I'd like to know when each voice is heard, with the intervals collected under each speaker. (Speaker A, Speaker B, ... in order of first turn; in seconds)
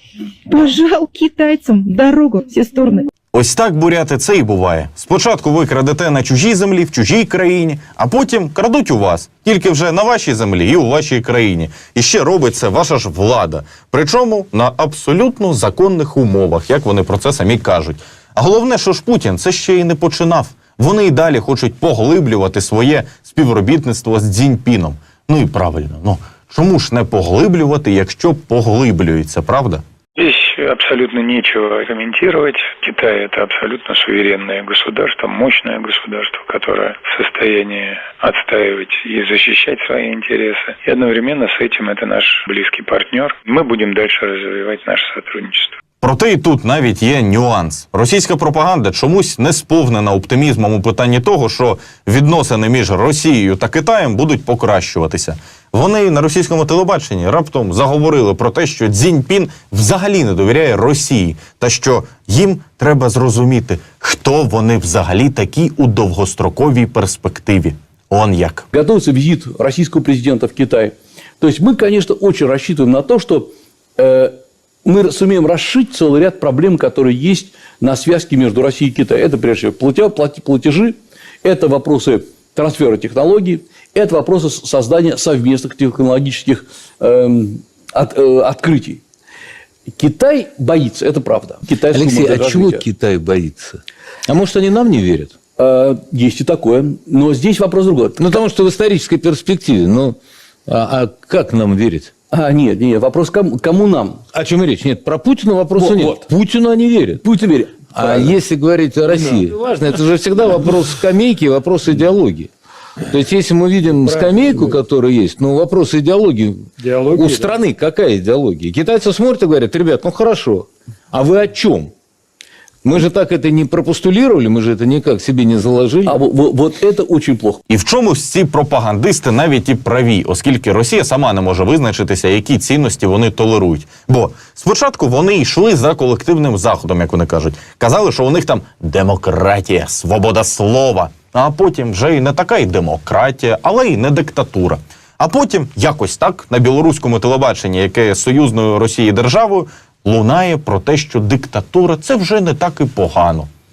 Speaker A: 0.5-3.0
Speaker B: 3.3-29.8, 46.0-68.7, 127.7-153.5
Speaker C: 30.2-45.7
Speaker D: 68.7-89.0, 89.9-92.8, 95.6-98.4, 102.3-104.2, 105.8-106.2, 107.2-108.3, 126.0-127.6
Speaker E: 91.7-95.3, 98.2-102.1, 104.3-107.2, 107.9-112.5, 113.0-121.9, 122.8-126.2